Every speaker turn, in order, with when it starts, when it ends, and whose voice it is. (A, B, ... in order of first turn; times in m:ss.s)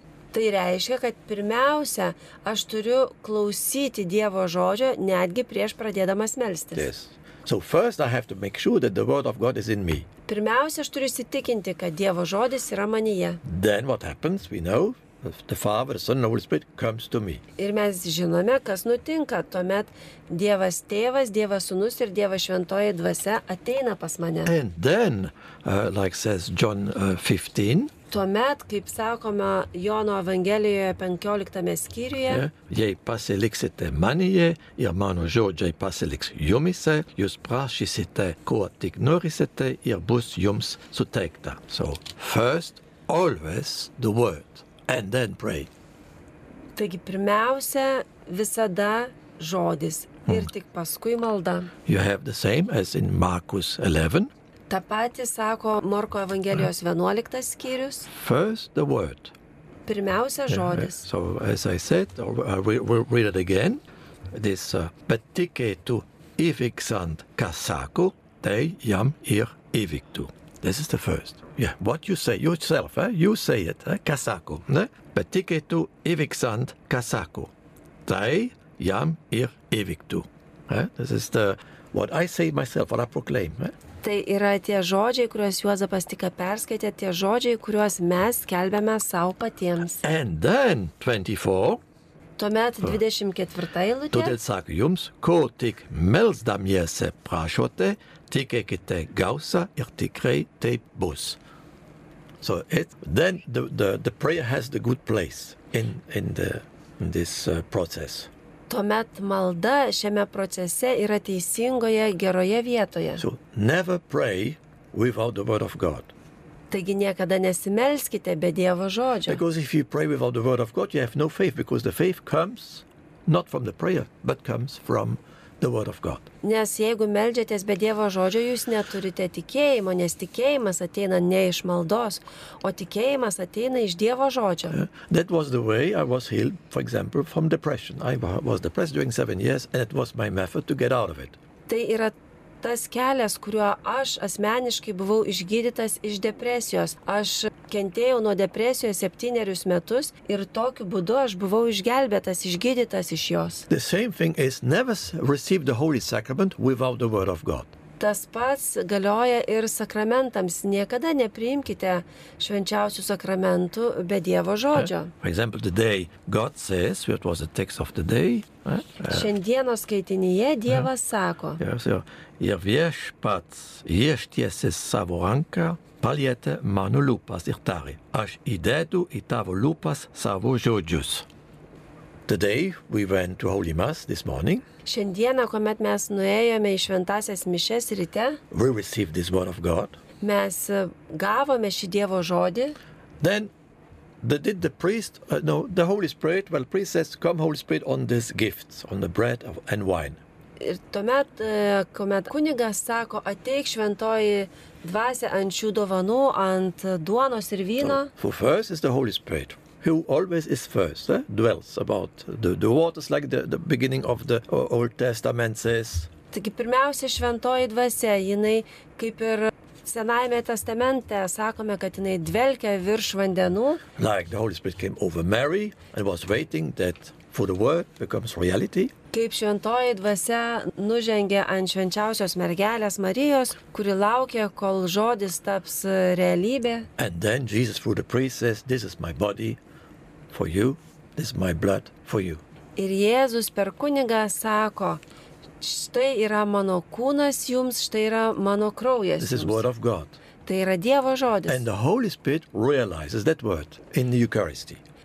0:00.3-0:06.9 A
0:06.7-0:10.1 B
0:10.3-0:13.4 A
0:13.4-0:17.4 B
0:17.6-0:24.5 A
0:24.4-0:27.9 B
0:28.1-0:32.4 A
0:32.3-0:45.7 B
0:46.8-0:51.7 A
0:51.9-0:54.3 B
0:54.7-0:58.1 A
0:58.1-0:59.3 B
0:59.9-1:01.1 A
1:00.5-1:03.8 B
1:04.3-1:17.5 B
1:18.1-1:23.8 B
1:24.0-1:30.0 A
1:30.0-1:31.8 B
1:32.4-1:34.4 A
1:34.1-1:41.4 B
1:42.4-1:48.3 B
1:48.7-1:53.2 A
1:53.2-1:56.1 B
1:56.7-1:59.4 A
1:59.3-2:06.3 B
2:06.4-2:14.8 A
2:14.7-2:21.4 B
2:21.7-2:33.7 A
2:33.7-2:37.7 B
2:38.0-2:45.1 A
2:44.7-2:49.3 B
2:49.1-2:51.6 A
2:51.6-3:01.3 B
3:02.3-3:04.6 B
3:04.8-3:08.4 A
3:08.5-3:10.0 B
3:10.2-3:12.8 A
3:13.2-3:13.5 B
3:14.2-3:20.2 B
3:20.6-3:28.1 A
3:27.8-3:36.1 B
3:36.3-3:43.8 A
3:44.0-3:48.9 B
3:49.1-3:56.9 A
3:57.0-3:59.6 B
4:00.3-4:02.4 B
4:02.8-4:05.0 A
4:05.6-4:09.6 A
4:09.2-4:10.2 B
4:10.4-4:11.6 A
4:11.5-4:14.8 B